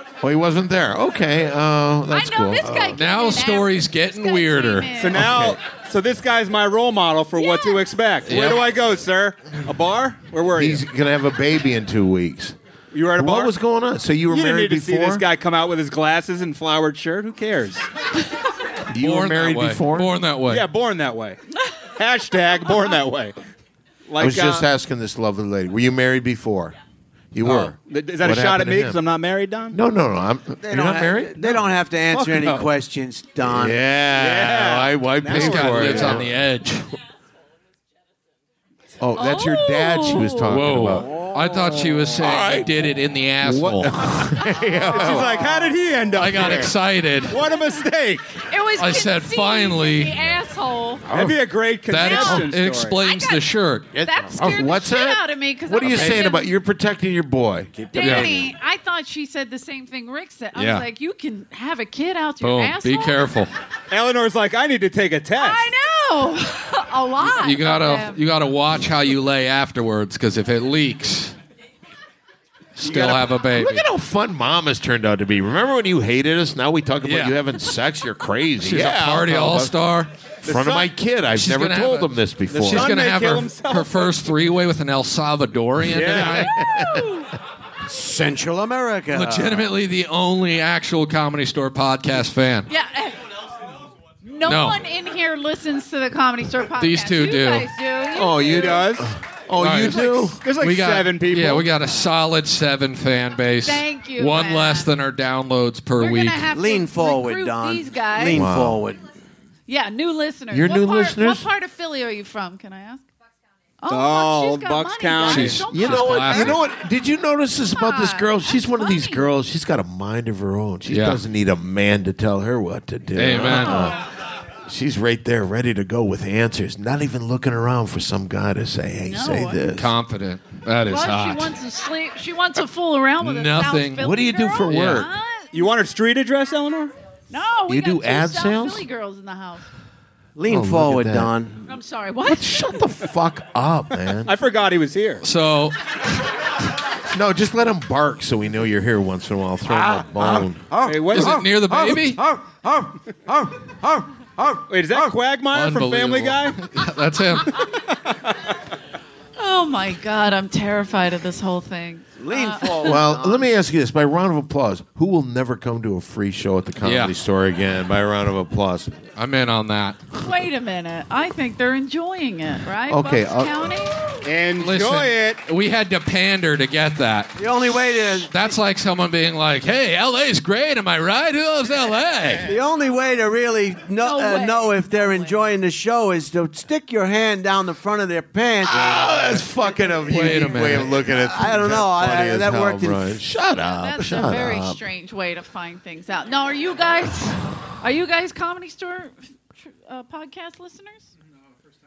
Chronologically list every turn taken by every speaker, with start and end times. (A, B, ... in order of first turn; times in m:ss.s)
0:00.2-0:03.0 A
0:02.1-0:05.4 B
0:03.0-0:05.0 C
0:05.0-0:10.8 D
0:05.3-0:05.6 A
0:07.4-0:07.9 B
0:08.3-0:08.7 C
0:10.6-0:12.6 A
0:12.9-0:13.5 D
0:13.2-0:15.2 A
0:14.3-0:17.9 D
0:18.9-0:20.1 A
0:19.0-0:20.7 C
0:20.5-0:21.4 D
0:22.0-0:23.4 D
0:24.1-0:24.7 D
0:24.2-0:26.7 A
0:27.3-0:29.0 A
0:27.4-0:29.8 D
0:29.7-0:31.4 A
0:30.6-0:33.8 E
0:31.4-0:32.7 D
0:33.4-0:36.3 A
0:34.2-0:36.2 D
0:35.3-0:36.9 C
0:39.0-0:41.1 A
0:39.2-0:40.6 B
0:40.5-0:44.1 C
0:41.0-0:42.0 E
0:42.2-0:42.7 A
0:43.4-0:45.6 A
0:44.9-0:46.7 D
0:46.1-0:47.4 C
0:47.3-0:48.4 D
0:47.4-0:47.8 B
0:48.4-0:51.1 B
0:48.8-0:50.3 C
0:51.1-0:53.0 D
0:51.9-0:54.0 C
0:52.0-0:52.4 B
0:52.9-0:56.5 B
0:54.0-0:57.7 A
0:55.8-0:56.3 C
0:57.8-0:58.5 E
0:57.9-1:03.2 B
0:58.0-0:58.4 C
1:00.6-1:00.9 C
1:02.4-1:03.5 C
1:03.9-1:05.7 D
1:05.3-1:08.2 B
1:07.3-1:11.4 C
1:12.8-1:13.9 C
1:12.8-1:13.3 D
1:13.5-1:19.8 A
1:17.0-1:17.4 C
1:18.6-1:20.1 C
1:20.4-1:23.0 A
1:20.5-1:20.9 D
1:21.3-1:26.5 C
1:22.5-1:24.2 D
1:25.9-1:26.4 E
1:26.5-1:27.0 A
1:26.6-1:27.3 B
1:27.9-1:29.7 E
1:29.1-1:32.7 C
1:32.7-1:33.2 B
1:34.2-1:38.9 B
1:34.4-1:34.9 C
1:36.8-1:37.7 C
1:38.1-1:40.4 A
1:38.5-1:39.1 D
1:39.6-1:46.5 C
1:40.3-1:41.7 D
1:43.6-1:44.9 B
1:46.0-1:48.4 B
1:46.5-1:49.0 E
1:48.3-1:48.8 A
1:49.7-1:53.0 B
1:50.5-1:51.5 A
1:53.8-1:56.6 B
1:53.9-1:55.6 D
1:55.2-1:56.6 C
1:55.7-2:04.0 A
1:57.7-1:59.3 B
2:00.9-2:01.2 C
2:03.2-2:04.0 C
2:03.4-2:04.0 B
2:04.7-2:09.9 A
2:09.0-2:09.6 B
2:09.7-2:11.5 C
2:10.8-2:15.7 B
2:13.2-2:14.1 C
2:14.0-2:15.1 A
2:14.7-2:15.1 C
2:15.5-2:16.9 D
2:17.3-2:19.7 B
2:17.7-2:18.8 A
2:20.4-2:21.6 E
2:20.5-2:21.4 A
2:21.7-2:22.6 B
2:22.2-2:24.4 A
2:24.2-2:25.2 D
2:25.2-2:25.8 C
2:27.1-2:30.7 A
2:30.2-2:35.1 E
2:30.9-2:31.4 D
2:31.1-2:32.2 C
2:34.7-2:36.6 D
2:35.5-2:37.6 C
2:39.4-2:43.0 B
2:42.2-2:43.5 E
2:42.8-2:49.0 A
2:46.8-2:47.1 C
2:49.2-2:50.0 C
2:50.2-2:54.1 B
2:52.9-2:53.7 A
2:54.2-2:55.4 D
2:54.6-2:57.5 C
2:57.4-2:58.3 E
2:58.2-3:02.5 C
3:02.5-3:09.4 E
3:04.0-3:05.5 B
3:08.7-3:14.8 A
3:10.1-3:11.0 C
3:11.2-3:13.2 E
3:13.4-3:21.1 B